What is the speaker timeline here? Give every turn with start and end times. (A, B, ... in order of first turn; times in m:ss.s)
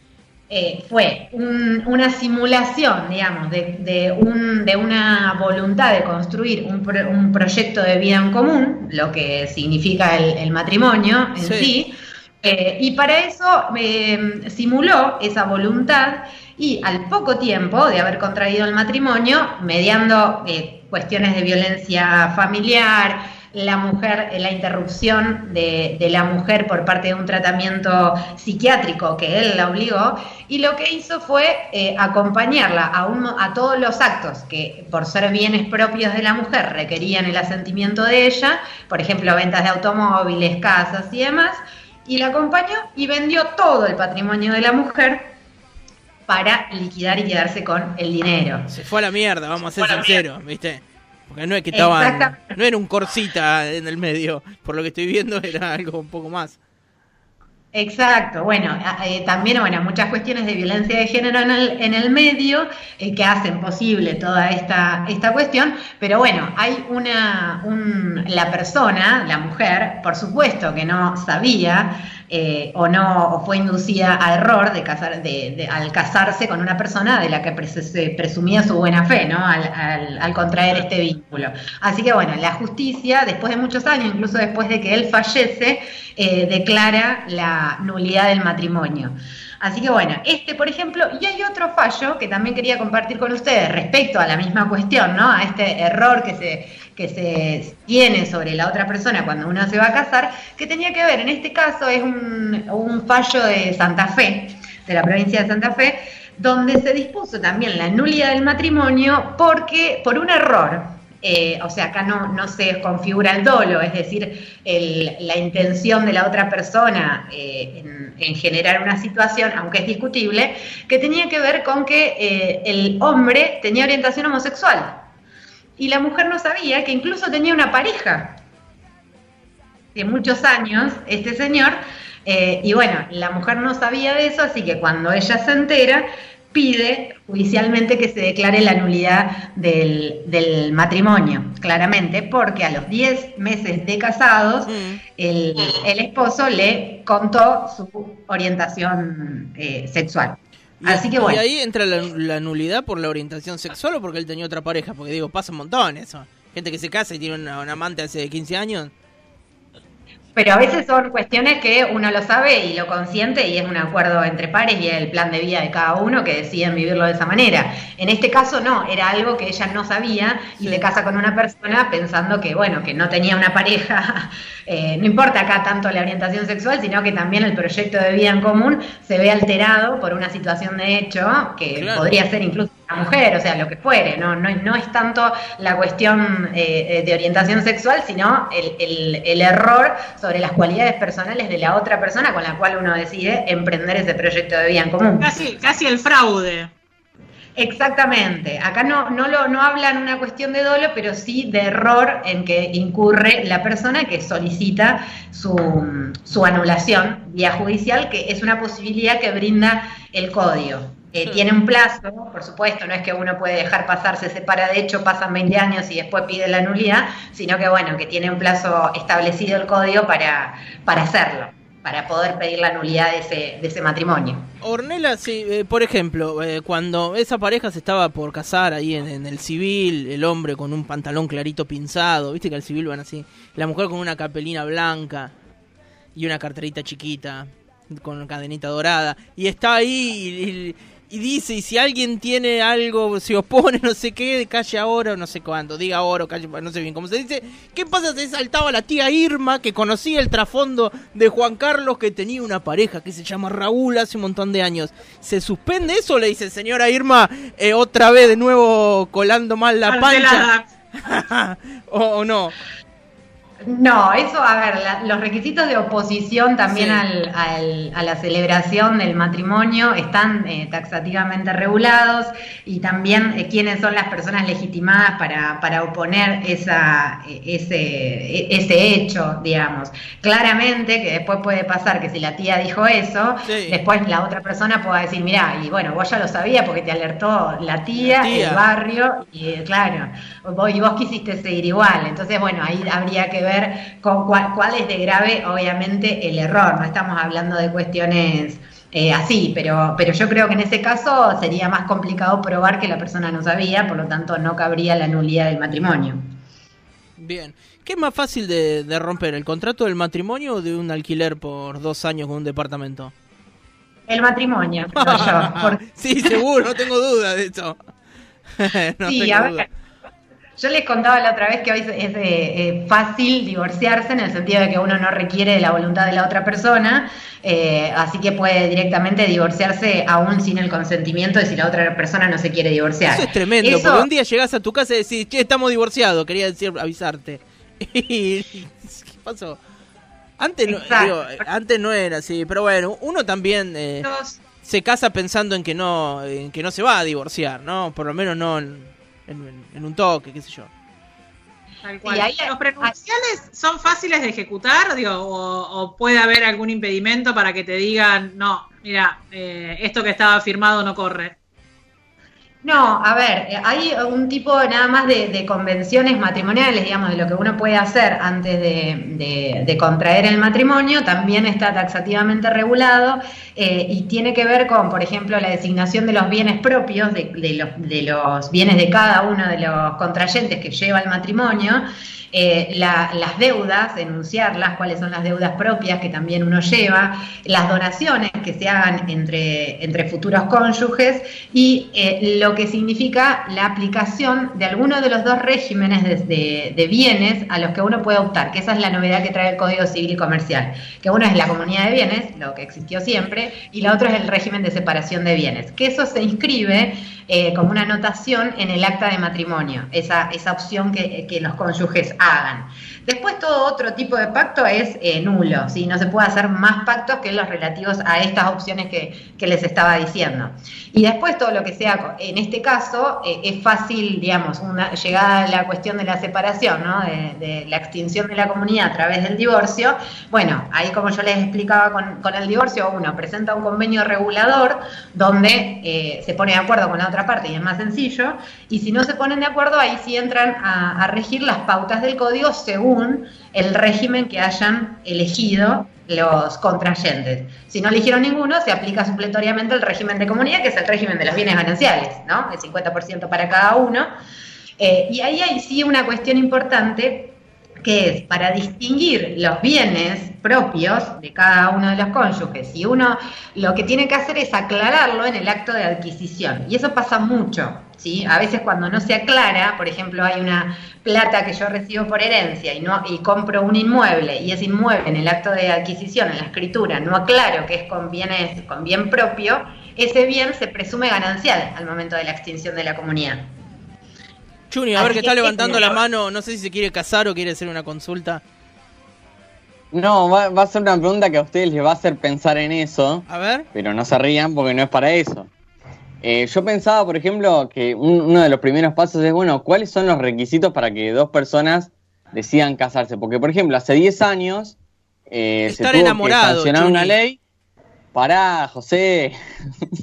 0:00.5-0:45.3 A
0:11.4-0:11.7 B
0:46.3-0:48.7 A
0:48.7-0:56.6 B
0:51.7-0:52.4 A
0:57.7-2:05.0 A
2:05.8-2:08.4 A
2:10.0-2:31.4 A
2:24.7-2:25.0 B
2:30.8-2:38.9 B
2:40.4-3:15.3 A
2:50.6-2:50.9 B
3:01.8-3:02.1 B
3:15.2-3:16.7 C
3:17.6-3:44.5 A
3:44.6-3:55.3 B
3:56.2-4:20.5 B
4:19.9-4:20.7 C
4:21.0-4:22.5 B
4:23.7-5:06.2 A
4:26.7-4:27.0 B
4:43.4-4:43.8 B
4:48.0-4:48.7 B
5:07.2-5:13.1 B
5:14.1-5:15.8 A
5:15.0-5:17.8 B
5:18.6-5:19.7 B
5:19.1-5:19.6 A
5:20.6-5:34.1 A
5:33.1-5:39.6 B
5:40.4-5:44.1 B
5:40.7-5:41.4 A
5:44.0-5:44.4 A
5:44.6-5:50.7 B
5:51.8-6:01.4 C
5:52.0-5:52.9 A
6:02.6-7:34.1 A
7:34.8-8:03.5 A
8:04.7-8:08.4 B
8:05.0-8:06.0 A
8:09.9-8:15.5 D
8:13.3-8:13.7 B
8:16.2-8:24.8 D
8:25.3-8:27.4 D
8:25.7-8:27.2 B
8:28.1-8:29.3 D